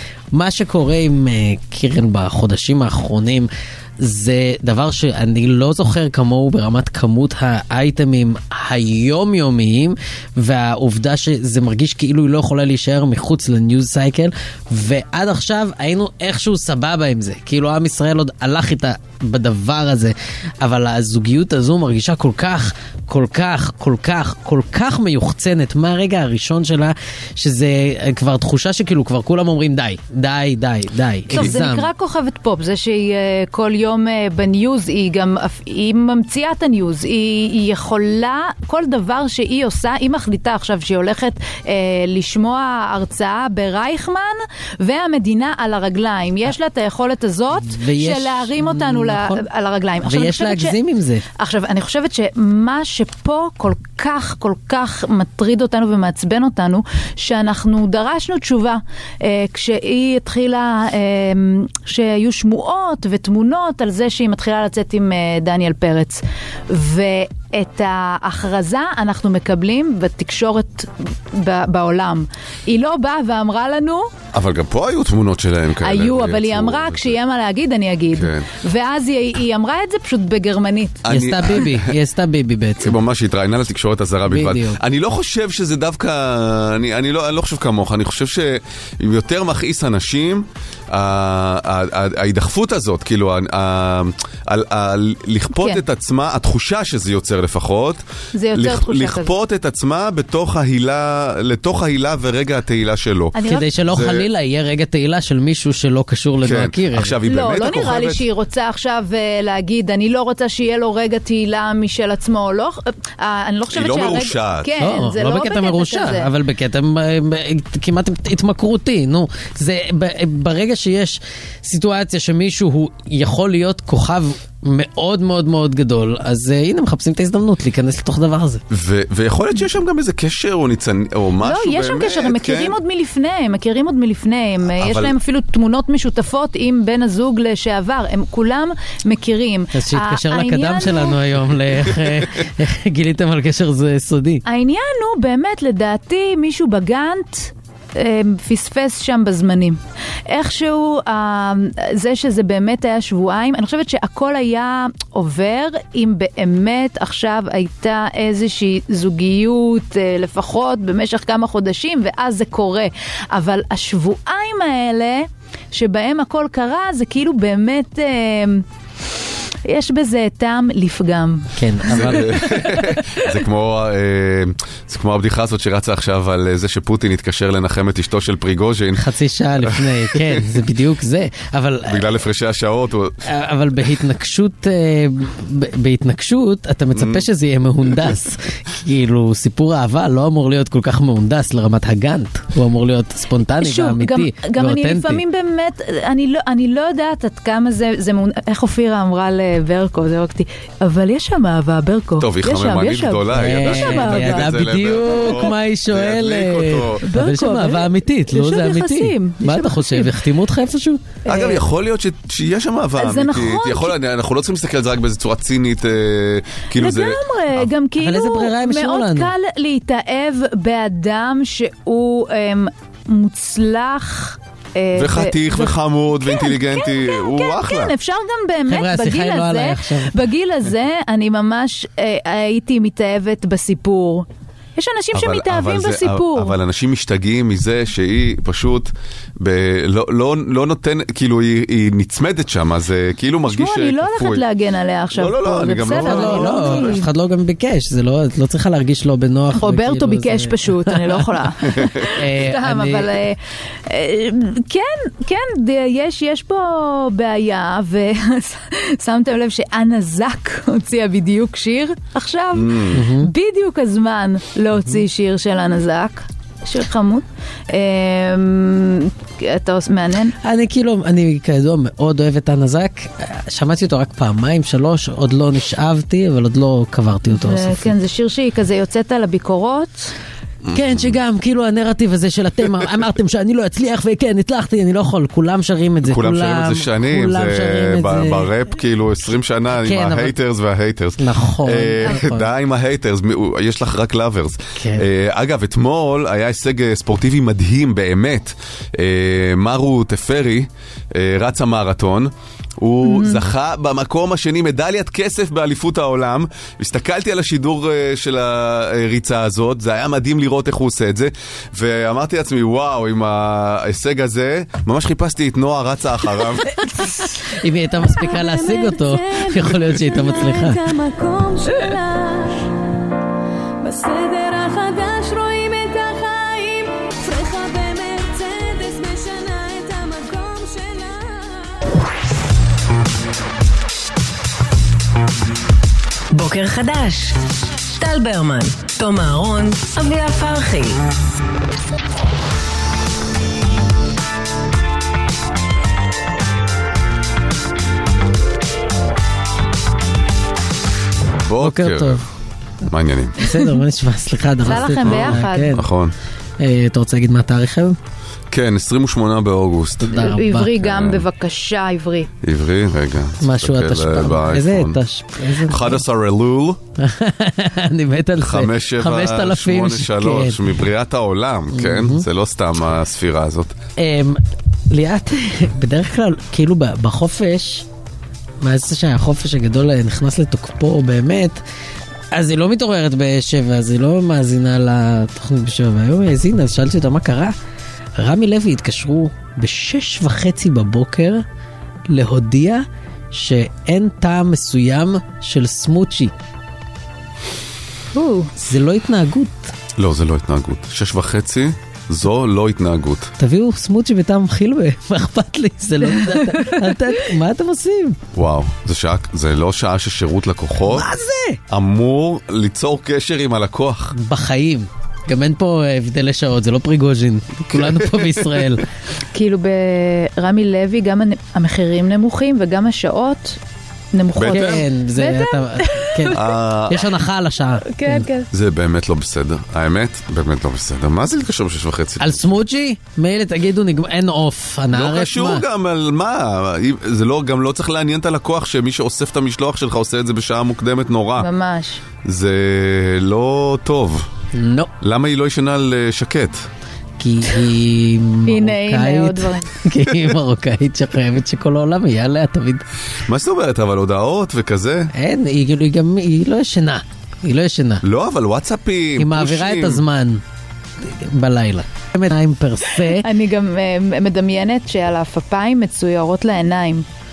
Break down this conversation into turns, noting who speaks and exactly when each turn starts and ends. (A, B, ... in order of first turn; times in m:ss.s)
0:00.3-0:03.5 A
0:04.0-0:31.9 A
0:31.3-0:50.8 B
0:47.6-0:49.4 A
0:50.0-0:51.2 A
0:51.4-1:14.1 B
1:14.3-1:17.2 C
1:15.8-1:21.0 B
1:18.1-1:18.5 C
1:21.0-1:21.9 C
1:21.1-1:22.9 A
1:22.8-1:44.3 C
1:24.3-1:24.8 A
1:38.3-1:39.3 B
1:43.4-1:43.7 B
1:43.4-1:47.2 A
1:46.4-1:48.2 C
1:47.2-1:56.3 B
1:53.7-1:54.7 C
1:54.8-2:08.6 A
2:08.7-2:12.8 C
2:11.4-2:21.2 B
2:14.7-2:15.2 C
2:19.7-2:24.4 A
2:24.5-2:48.6 B
2:49.7-2:53.3 B
2:51.6-2:52.5 A
2:51.9-2:59.0 C
2:59.0-3:02.0 A
2:59.6-3:00.4 C
3:01.9-3:03.2 C
3:03.3-3:15.2 A
3:06.9-3:07.3 C
3:13.6-3:24.5 B
3:22.2-3:27.0 C
3:23.3-3:31.0 A
3:27.0-3:30.2 B
3:31.3-3:31.6 B
3:31.3-3:37.7 C
3:33.0-3:33.9 B
3:36.8-3:56.6 B
3:38.0-3:39.3 A
3:45.0-3:47.9 C
3:48.7-3:50.1 A
3:55.1-4:04.4 C
4:03.5-4:07.1 B
4:05.1-4:07.0 C
4:06.0-4:11.3 A
4:09.6-4:30.3 B
4:12.1-4:13.2 A
4:22.5-4:23.0 C
4:22.9-4:23.3 A
4:30.4-4:37.9 A
4:37.3-4:40.1 B
4:40.6-4:41.2 C
4:40.7-4:48.5 A
4:46.0-5:16.6 C
4:49.7-4:50.4 A
4:51.2-4:52.5 A
4:54.8-4:55.1 A
5:03.0-5:03.4 B
5:16.6-5:17.4 B
5:17.6-5:20.8 A
5:18.5-5:22.8 D
5:23.8-5:31.8 D
5:36.3-5:41.0 E
5:51.3-5:52.2 C
5:51.6-5:52.2 A
5:52.8-5:53.4 C
5:53.4-5:55.9 A
5:54.6-5:55.8 B
5:55.0-5:56.1 C
5:56.6-5:58.0 A
5:58.5-6:01.2 C
6:00.0-6:00.7 A
6:00.2-6:02.3 B
6:02.4-6:05.0 C
6:03.4-6:06.0 A
6:05.5-6:06.8 C
6:07.0-6:10.6 A
6:08.4-6:13.8 C
6:11.7-6:12.2 A
6:14.0-6:17.9 A
6:18.6-6:21.6 A
6:22.3-6:27.5 A
6:28.2-6:31.4 A
6:32.1-6:36.3 A
6:38.1-6:38.5 B
6:38.6-6:39.7 A
6:40.0-6:43.3 C
6:43.4-6:48.2 A
6:46.0-6:47.0 B
6:48.3-6:51.1 C
6:50.9-6:51.6 A
6:51.7-6:54.2 C
6:54.1-6:58.9 A
6:57.7-6:58.8 C
6:59.3-7:03.6 B
7:04.1-7:06.4 B
7:04.4-7:04.8 C
7:04.5-7:08.3 A
7:06.3-7:07.1 C
7:07.9-7:08.5 B
7:08.5-7:12.6 C
7:12.2-7:15.6 A
7:14.9-7:21.5 C
7:21.4-7:22.0 B
7:22.2-7:24.3 C
7:24.5-7:24.9 A
7:25.0-7:26.7 C
7:27.2-7:32.8 A
7:28.5-7:29.7 B
7:33.3-7:35.1 C
7:35.1-7:38.0 A
7:38.0-7:40.0 C
7:39.2-7:40.4 A
7:41.0-7:43.3 A
7:43.0-7:47.0 B